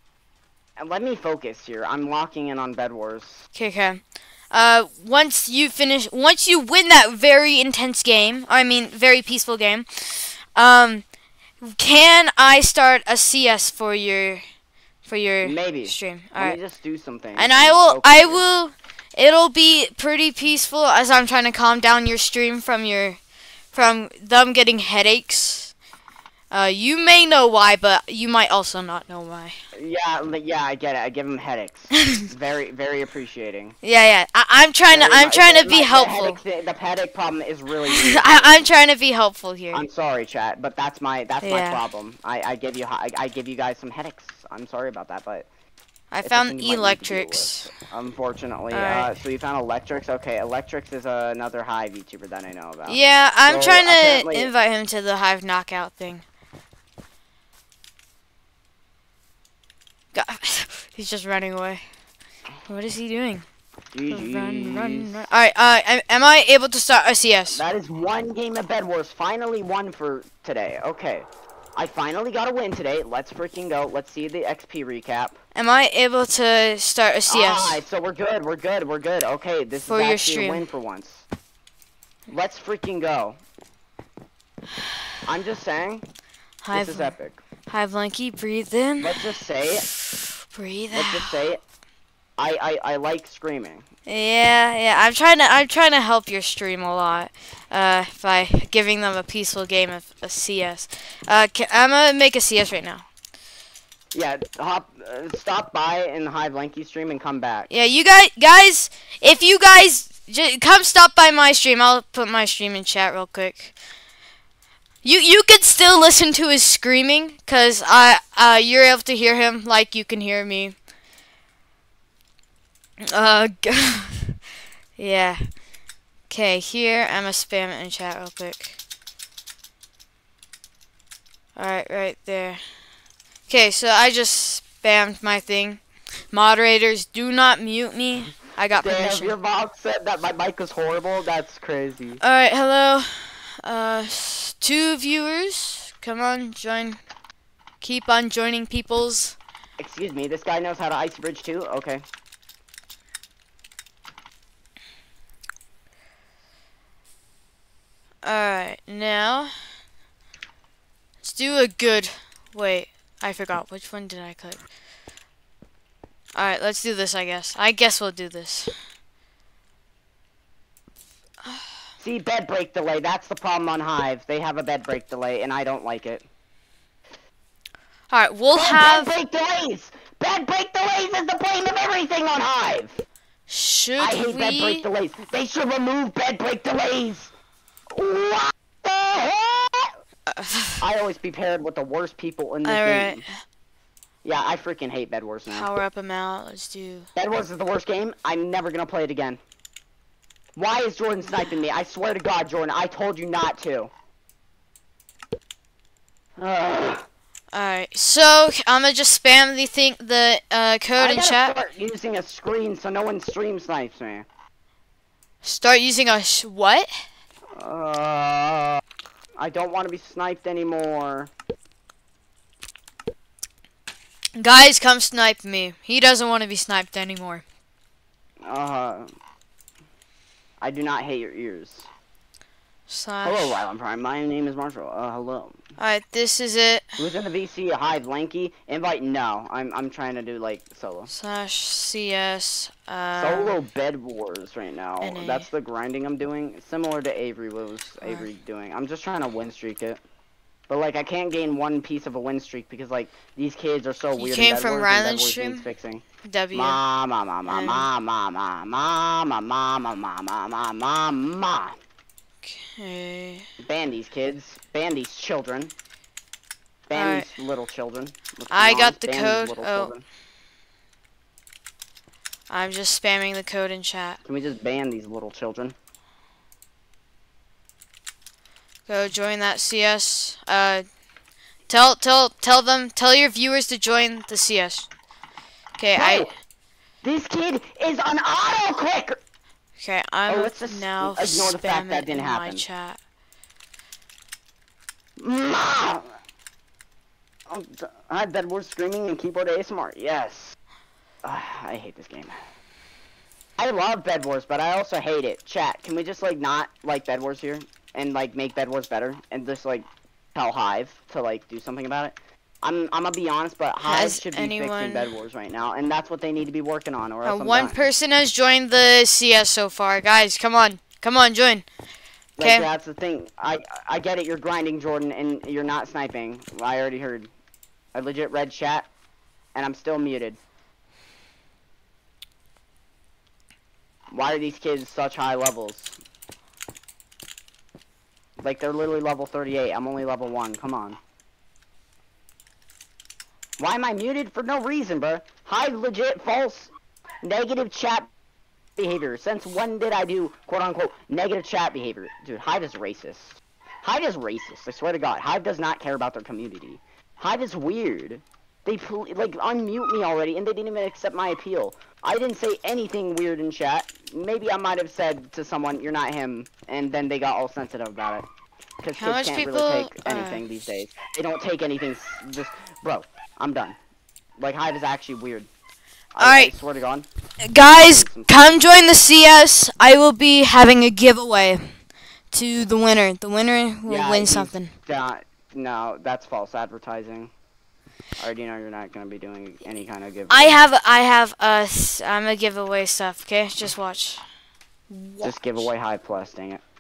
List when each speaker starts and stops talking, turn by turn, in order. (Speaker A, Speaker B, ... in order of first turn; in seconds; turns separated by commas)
Speaker A: 0.8-3.5, Speaker B: 3.6-11.0, Speaker B: 11.6-14.4, Speaker B: 15.1-16.6, Speaker A: 15.4-18.4, Speaker B: 17.4-23.2, Speaker B: 23.7-25.7, Speaker B: 26.5-29.6, Speaker A: 29.7-33.8, Speaker B: 32.0-32.2, Speaker B: 33.8-36.4, Speaker A: 34.9-38.7, Speaker B: 37.9-39.9, Speaker A: 39.7-45.5, Speaker B: 41.4-41.8, Speaker B: 46.1-47.7, Speaker A: 46.2-54.5, Speaker B: 48.7-49.1, Speaker B: 52.9-56.2, Speaker B: 60.1-61.8, Speaker B: 62.7-63.5, Speaker A: 63.9-65.2, Speaker B: 64.1-67.6, Speaker A: 67.5-75.4, Speaker B: 75.5-77.8, Speaker A: 77.3-81.3, Speaker B: 79.9-80.7, Speaker A: 82.3-83.4, Speaker A: 85.2-86.0, Speaker B: 86.6-87.1, Speaker A: 86.7-87.4, Speaker B: 87.7-89.3, Speaker A: 89.0-89.9, Speaker B: 89.9-91.3, Speaker A: 90.9-91.6, Speaker A: 92.4-93.9, Speaker B: 94.1-103.1, Speaker A: 104.1-107.7, Speaker B: 107.7-113.7, Speaker B: 115.0-120.8, Speaker B: 123.0-124.4, Speaker B: 125.0-125.4, Speaker B: 126.3-128.8, Speaker B: 131.6-132.6, Speaker B: 133.5-139.4, Speaker A: 138.7-142.2, Speaker B: 142.2-147.0, Speaker B: 147.8-149.4, Speaker A: 149.8-152.0, Speaker B: 158.2-159.5, Speaker B: 161.2-164.6, Speaker B: 166.3-168.7, Speaker A: 172.0-176.2, Speaker B: 178.1-179.1, Speaker A: 178.5-183.0, Speaker B: 183.5-184.8, Speaker A: 184.0-187.3, Speaker A: 187.9-189.9, Speaker B: 190.3-190.8, Speaker A: 190.8-193.2, Speaker B: 192.7-193.4, Speaker A: 194.2-195.7, Speaker B: 195.5-197.1, Speaker A: 197.2-199.4, Speaker A: 200.6-203.9, Speaker A: 206.4-207.1, Speaker B: 207.5-211.6, Speaker A: 211.0-214.3, Speaker B: 215.4-217.0, Speaker A: 217.6-218.8, Speaker A: 219.4-221.3, Speaker B: 224.4-227.4, Speaker A: 228.4-229.1, Speaker A: 230.6-231.9, Speaker B: 232.9-233.6, Speaker A: 233.2-235.6, Speaker B: 235.8-237.0, Speaker A: 237.0-241.1, Speaker B: 241.1-243.6, Speaker A: 243.2-250.0, Speaker B: 245.0-245.5, Speaker B: 248.0-248.3, Speaker A: 250.7-261.8, Speaker B: 254.2-255.7, Speaker B: 256.2-256.8, Speaker B: 257.5-257.9, Speaker B: 262.4-263.5, Speaker A: 263.6-265.7, Speaker A: 266.9-270.0, Speaker B: 266.9-267.3, Speaker B: 268.5-269.9, Speaker B: 272.5-274.2, Speaker A: 274.2-275.8, Speaker B: 278.9-280.9, Speaker B: 281.7-284.9, Speaker B: 285.8-286.3, Speaker A: 285.9-286.3, Speaker A: 287.0-289.2, Speaker B: 289.8-293.0, Speaker A: 290.3-292.6, Speaker A: 295.2-296.1, Speaker A: 297.5-300.6, Speaker A: 301.2-302.4, Speaker A: 303.6-317.8, Speaker B: 313.9-315.1, Speaker B: 317.2-321.6, Speaker A: 322.4-327.3, Speaker B: 322.4-322.7, Speaker A: 327.9-328.9, Speaker A: 329.6-330.4, Speaker A: 334.1-335.9, Speaker A: 338.4-341.0, Speaker A: 343.6-346.7, Speaker A: 347.2-348.1, Speaker A: 348.8-368.3, Speaker A: 368.8-373.8, Speaker B: 369.0-370.4, Speaker A: 374.4-375.5, Speaker A: 376.1-377.1, Speaker B: 376.2-376.5, Speaker B: 377.4-381.7, Speaker A: 377.6-378.6, Speaker B: 382.3-384.7, Speaker A: 383.9-387.3, Speaker A: 388.2-390.6, Speaker B: 390.3-394.2, Speaker B: 394.9-395.7, Speaker A: 395.2-396.6